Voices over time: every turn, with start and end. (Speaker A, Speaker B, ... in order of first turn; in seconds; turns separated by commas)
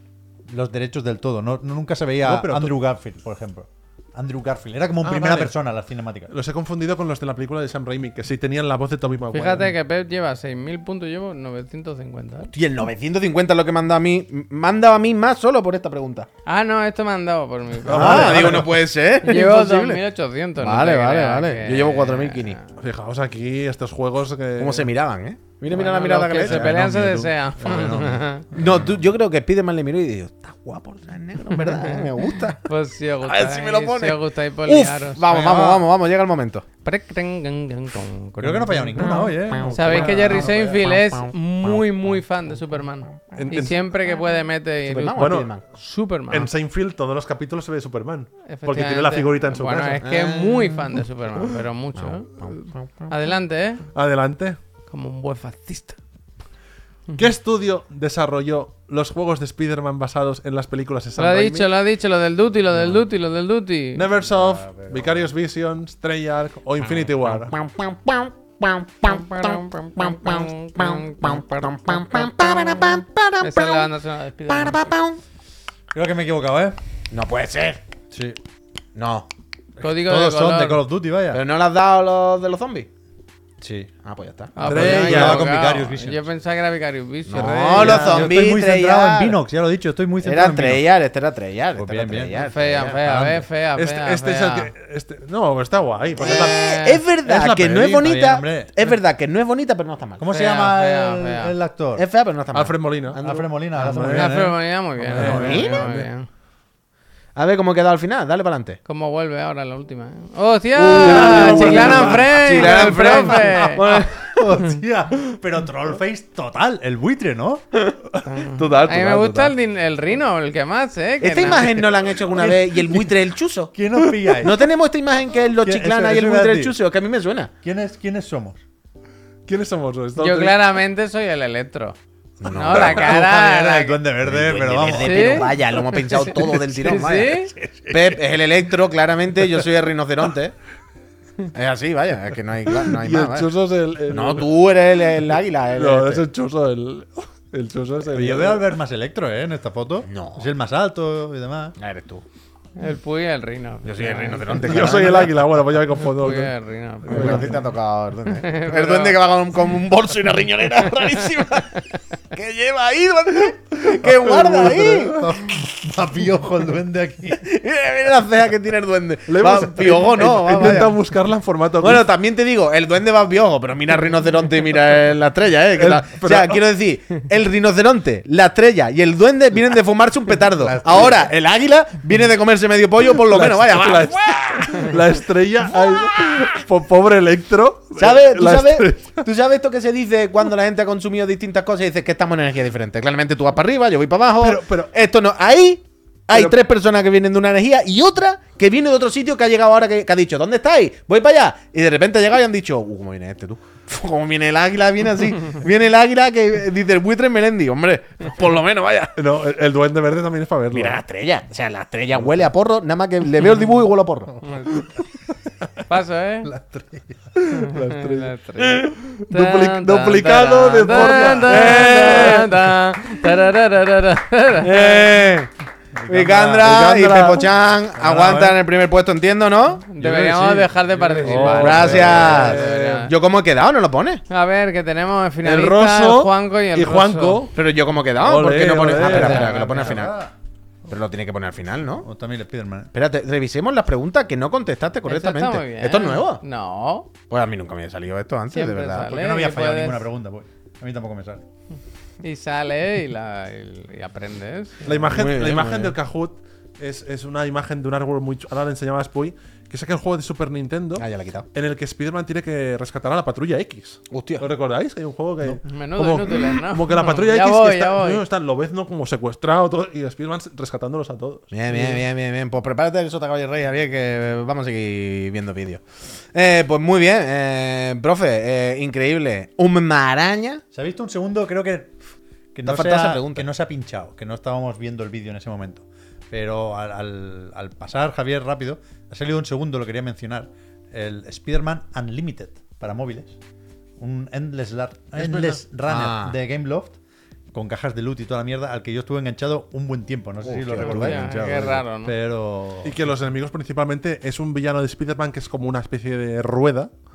Speaker A: 0.5-6.3, Speaker B: 2.2-2.8, Speaker B: 5.0-5.5, Speaker B: 6.3-9.7, Speaker C: 9.3-12.5, Speaker D: 12.5-16.3, Speaker C: 16.4-18.6, Speaker B: 17.9-18.8, Speaker D: 17.9-20.0, Speaker C: 19.2-22.7, Speaker D: 20.6-22.6, Speaker B: 22.8-24.9, Speaker D: 24.6-26.7, Speaker C: 25.7-28.5, Speaker B: 26.4-28.1, Speaker A: 27.6-28.2, Speaker D: 28.5-32.6, Speaker C: 31.5-32.1, Speaker C: 32.6-35.2, Speaker D: 33.2-36.6, Speaker A: 35.2-35.9, Speaker C: 36.8-46.5, Speaker A: 38.4-40.8, Speaker D: 39.1-40.1, Speaker B: 39.8-40.1, Speaker D: 40.8-41.8, Speaker B: 43.3-43.8, Speaker D: 44.9-45.6, Speaker B: 45.1-45.5, Speaker B: 46.3-50.0, Speaker C: 48.5-53.8, Speaker D: 50.0-50.8, Speaker D: 52.0-53.0, Speaker B: 53.9-54.6, Speaker C: 54.9-56.0, Speaker B: 57.1-61.7, Speaker C: 61.2-64.0, Speaker B: 63.9-67.6, Speaker A: 64.2-65.3, Speaker D: 66.8-73.9, Speaker C: 69.1-72.5, Speaker C: 73.4-74.9, Speaker D: 74.5-75.2, Speaker A: 75.9-76.8, Speaker D: 77.1-77.8, Speaker A: 78.1-78.4, Speaker D: 78.9-79.3, Speaker A: 79.8-81.4, Speaker C: 79.8-80.8, Speaker D: 81.3-82.9, Speaker A: 83.6-83.9, Speaker D: 84.0-85.2, Speaker C: 84.5-88.2, Speaker A: 84.6-86.3, Speaker B: 84.6-85.5, Speaker D: 87.3-89.4, Speaker B: 87.7-88.3, Speaker A: 87.7-90.8, Speaker D: 90.2-93.0, Speaker A: 91.7-93.5, Speaker C: 92.4-94.7, Speaker B: 93.8-96.6, Speaker D: 96.2-100.2, Speaker C: 96.2-97.0, Speaker B: 97.2-98.1, Speaker A: 97.8-98.7, Speaker A: 100.2-102.0, Speaker C: 100.3-101.5, Speaker D: 102.0-103.5, Speaker B: 102.5-103.2, Speaker A: 103.2-104.5, Speaker B: 103.7-106.1, Speaker C: 103.8-106.3, Speaker A: 105.1-105.5, Speaker D: 105.2-105.9, Speaker D: 107.3-108.8, Speaker C: 108.8-113.9, Speaker B: 110.8-112.5, Speaker D: 110.8-114.5, Speaker A: 111.2-117.6, Speaker B: 118.1-119.5, Speaker C: 118.2-121.8, Speaker D: 121.2-123.7, Speaker A: 122.3-123.0, Speaker A: 123.7-124.7, Speaker D: 124.3-127.5, Speaker A: 125.5-126.8, Speaker A: 127.6-128.6, Speaker B: 129.5-130.6, Speaker C: 130.2-134.0, Speaker D: 132.4-133.3, Speaker A: 132.7-135.7, Speaker D: 134.2-140.5, Speaker C: 134.9-137.5, Speaker D: 141.5-143.5, Speaker B: 142.7-144.5, Speaker D: 144.1-146.2, Speaker B: 145.2-148.7, Speaker A: 148.1-151.8, Speaker D: 150.1-150.5, Speaker D: 151.8-152.2, Speaker C: 152.8-155.2, Speaker D: 153.8-155.3, Speaker B: 154.6-156.5, Speaker C: 156.0-157.5, Speaker B: 157.1-157.5, Speaker D: 157.1-165.3, Speaker C: 158.3-159.2, Speaker B: 164.2-165.0, Speaker A: 164.4-167.4, Speaker D: 167.4-171.0, Speaker B: 169.3-172.1, Speaker A: 170.4-170.9, Speaker D: 171.8-185.0, Speaker B: 175.7-176.6, Speaker A: 180.6-181.3, Speaker B: 183.1-189.2, Speaker D: 185.7-186.5, Speaker D: 188.0-209.1, Speaker B: 194.4-194.9, Speaker B: 196.3-196.6, Speaker B: 209.2-211.0, Speaker D: 210.7-214.4, Speaker C: 214.4-214.8, Speaker C: 215.9-216.5, Speaker A: 216.4-217.3, Speaker B: 217.3-222.7, Speaker C: 217.5-225.0, Speaker D: 220.9-222.5, Speaker D: 224.6-225.5, Speaker A: 226.0-226.4, Speaker D: 226.1-229.8, Speaker B: 226.1-228.6, Speaker C: 229.9-233.1, Speaker B: 230.0-233.1, Speaker A: 231.2-232.3, Speaker D: 231.5-234.2, Speaker C: 234.3-237.4, Speaker B: 235.4-237.6, Speaker D: 237.5-240.2, Speaker B: 238.2-239.5, Speaker A: 239.0-240.3, Speaker C: 239.0-239.9, Speaker D: 240.9-242.1, Speaker A: 242.0-242.9, Speaker D: 242.9-246.4, Speaker C: 245.1-247.1, Speaker D: 247.3-249.2, Speaker C: 248.5-250.1, Speaker A: 249.0-251.4, Speaker C: 252.2-255.0, Speaker B: 254.8-271.5, Speaker D: 255.1-255.9, Speaker D: 261.0-261.5, Speaker D: 264.1-264.4, Speaker C: 265.6-268.2, Speaker D: 271.5-280.6, Speaker A: 280.7-282.0, Speaker A: 282.5-293.4, Speaker D: 282.6-283.5, Speaker A: 294.0-297.0, Speaker B: 295.2-295.6, Speaker D: 295.9-296.4, Speaker A: 297.5-303.1, Speaker D: 300.4-301.8, Speaker C: 300.8-302.1, Speaker B: 302.8-306.9